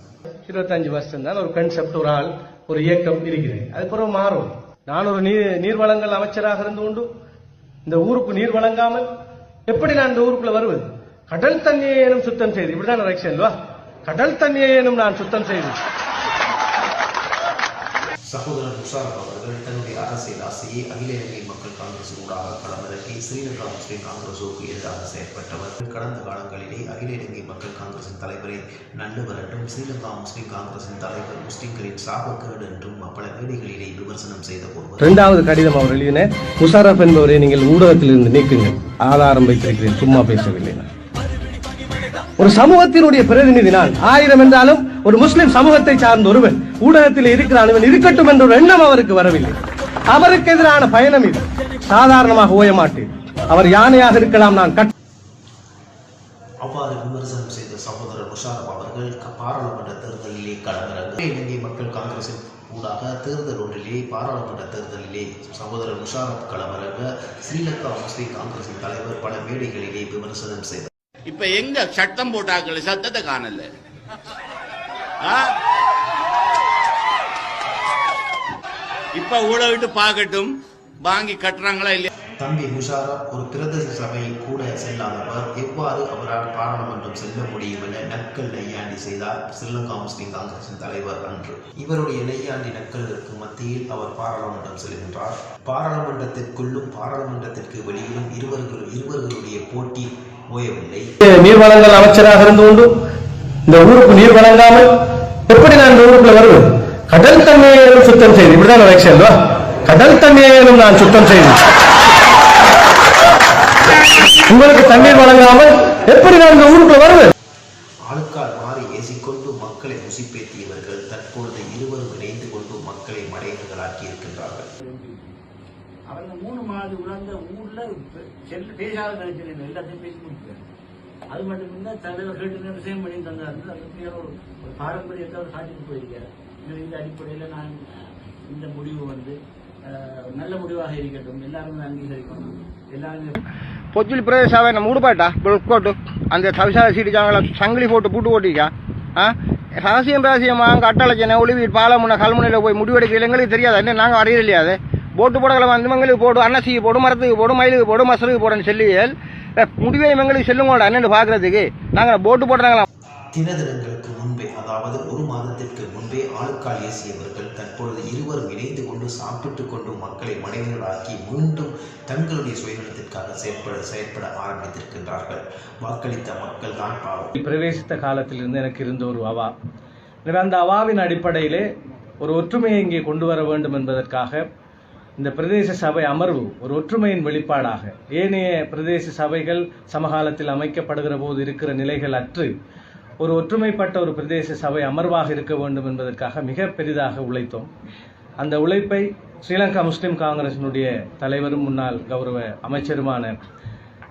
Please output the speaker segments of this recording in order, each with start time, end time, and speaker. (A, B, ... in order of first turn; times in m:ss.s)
0:00.4-0:07.1 A
0:07.8-0:09.1 A
0:09.7-0:13.5 A
0:14.0-0:15.8 A
0:18.3-0:35.2 B
0:35.0-0:40.9 A
0:42.4-0:49.6 A
0:50.1-0:54.9 A
0:56.6-1:10.9 B
1:11.2-1:13.7 C
1:15.2-1:15.5 C
1:19.1-1:22.1 C
1:22.4-1:41.1 B
1:41.2-1:42.9 A
1:43.7-1:51.6 A
1:54.4-1:57.3 A
1:58.1-2:04.7 B
2:04.8-2:05.3 D
2:06.1-2:10.6 D
2:11.3-2:23.4 D
2:23.9-2:42.8 E
2:43.3-2:57.3 B
2:57.4-2:59.5 A
3:00.2-3:01.6 A
3:02.2-3:04.4 A
3:05.2-3:12.5 A
3:13.2-3:17.7 A
3:18.4-3:23.4 A